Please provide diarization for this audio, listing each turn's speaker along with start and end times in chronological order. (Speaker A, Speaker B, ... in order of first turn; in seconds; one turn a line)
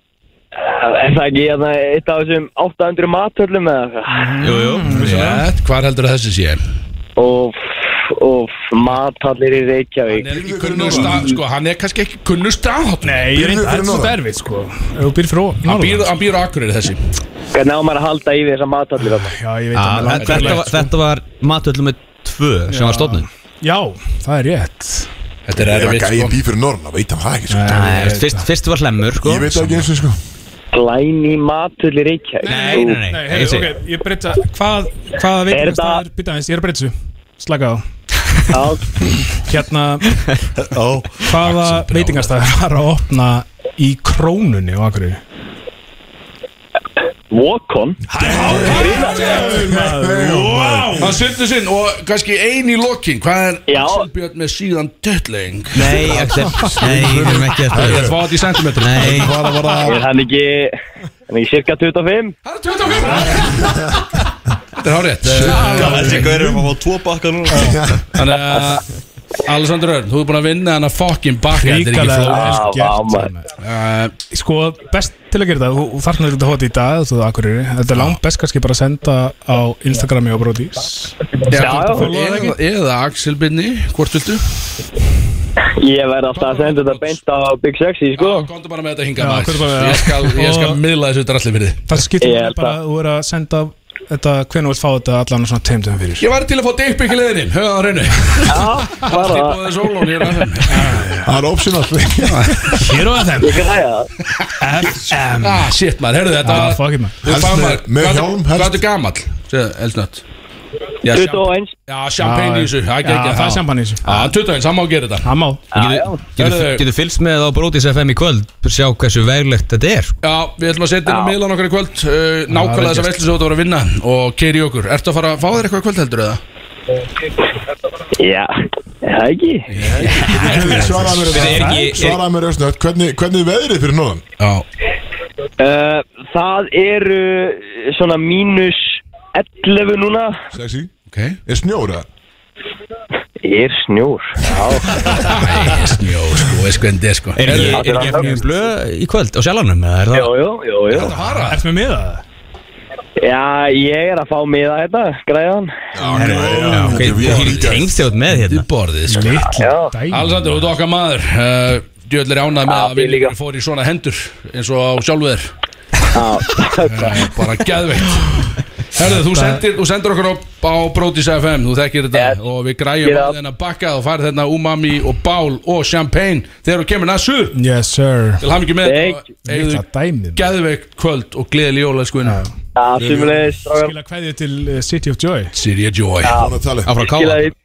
Speaker A: 0.6-4.3
Speaker B: 4.1-5.5
Speaker C: 4.4-5.3
Speaker D: 4.9-6.6
Speaker A: 7.2-11.4
Speaker D: 10.1-13.4
Speaker E: 10.3-11.3
Speaker B: 13.0-16.1
Speaker E: 13.3-14.2
Speaker D: 15.7-17.1
Speaker A: 17.5-19.4
Speaker B: 19.2-20.9
Speaker C: 19.8-23.3
Speaker D: 20.2-20.7
Speaker B: 22.7-25.1
Speaker D: 25.5-26.4
Speaker E: 25.6-27.9
Speaker B: 27.5-28.5
Speaker C: 27.7-29.9
Speaker E: 29.2-30.2
Speaker A: 30.7-33.0
Speaker B: 32.4-40.2
Speaker C: 32.4-33.7
Speaker A: 35.5-36.0
Speaker A: 38.5-38.9
Speaker F: 40.6-41.3
Speaker B: 41.2-45.2
Speaker D: 41.3-42.4
Speaker A: 47.3-49.5
Speaker B: 48.1-51.2
Speaker E: 48.1-51.2
Speaker D: 51.0-56.1
Speaker A: 53.7-54.1
Speaker C: 55.7-58.1
Speaker E: 55.8-60.1
Speaker D: 57.7-59.4
Speaker C: 58.8-59.4
Speaker A: 59.9-60.8
Speaker A: 61.3-62.4
Speaker D: 62.5-64.0
Speaker E: 63.1-63.9
Speaker D: 64.8-66.4
Speaker E: 65.2-66.3
Speaker B: 65.5-66.5
Speaker F: 65.6-67.8
Speaker E: 67.6-68.0
Speaker D: 68.1-68.9
Speaker D: 69.4-72.7
Speaker B: 71.5-73.5
Speaker A: 72.3-73.3
Speaker D: 73.6-74.2
Speaker B: 74.3-82.6
Speaker D: 77.9-78.2
Speaker A: 81.4-82.1
Speaker D: 81.5-84.5
Speaker A: 85.8-88.5
Speaker D: 86.3-87.2
Speaker D: 88.2-91.9
Speaker B: 89.2-90.8
Speaker B: 91.9-96.2
Speaker A: 92.2-92.8
Speaker D: 96.2-101.1
Speaker A: 98.5-100.4
Speaker B: 100.7-101.4
Speaker E: 101.2-102.9
Speaker D: 102.2-103.0
Speaker B: 102.8-103.7
Speaker A: 103.4-104.1
Speaker B: 104.6-105.7
Speaker D: 105.0-110.2
Speaker B: 106.4-107.2
Speaker E: 107.2-108.8
Speaker A: 111.0-111.7
Speaker D: 111.0-115.3
Speaker B: 112.2-114.1
Speaker C: 114.1-114.3
Speaker B: 115.2-115.7
Speaker A: 115.7-116.2
Speaker C: 115.7-120.1
Speaker D: 116.4-116.9
Speaker D: 120.2-126.4
Speaker A: 121.1-121.4
Speaker B: 122.5-123.2
Speaker A: 128.2-129.7
Speaker D: 129.7-131.4
Speaker E: 129.8-134.2
Speaker C: 129.9-132.2
Speaker B: 130.3-132.2
Speaker D: 134.4-134.7
Speaker A: 135.6-140.4
Speaker E: 140.5-140.9
Speaker D: 141.1-141.4
Speaker E: 141.5-142.1
Speaker A: 143.4-145.7
Speaker B: 145.0-145.4
Speaker D: 145.2-147.9
Speaker C: 147.4-150.3
Speaker A: 147.5-148.4
Speaker B: 147.8-148.4
Speaker A: 150.1-151.2
Speaker D: 150.9-151.6
Speaker B: 151.4-152.2
Speaker A: 153.2-155.9
Speaker E: 155.9-157.9
Speaker D: 156.0-159.4
Speaker C: 156.1-158.7
Speaker F: 156.5-157.1
Speaker B: 159.1-160.6
Speaker A: 159.4-159.9
Speaker D: 160.1-165.5
Speaker A: 162.7-163.3
Speaker A: 166.1-167.4
Speaker D: 166.9-177.6
Speaker B: 169.0-169.7
Speaker A: 173.0-173.4
Speaker B: 177.5-178.4
Speaker D: 178.4-179.8
Speaker A: 178.8-179.2
Speaker B: 179.3-180.5
Speaker D: 180.3-182.4
Speaker B: 182.2-182.5
Speaker A: 182.8-183.9
Speaker E: 183.0-183.5
Speaker B: 183.7-185.5
Speaker D: 185.5-186.3
Speaker A: 186.2-187.6
Speaker E: 186.3-186.9
Speaker C: 186.8-187.5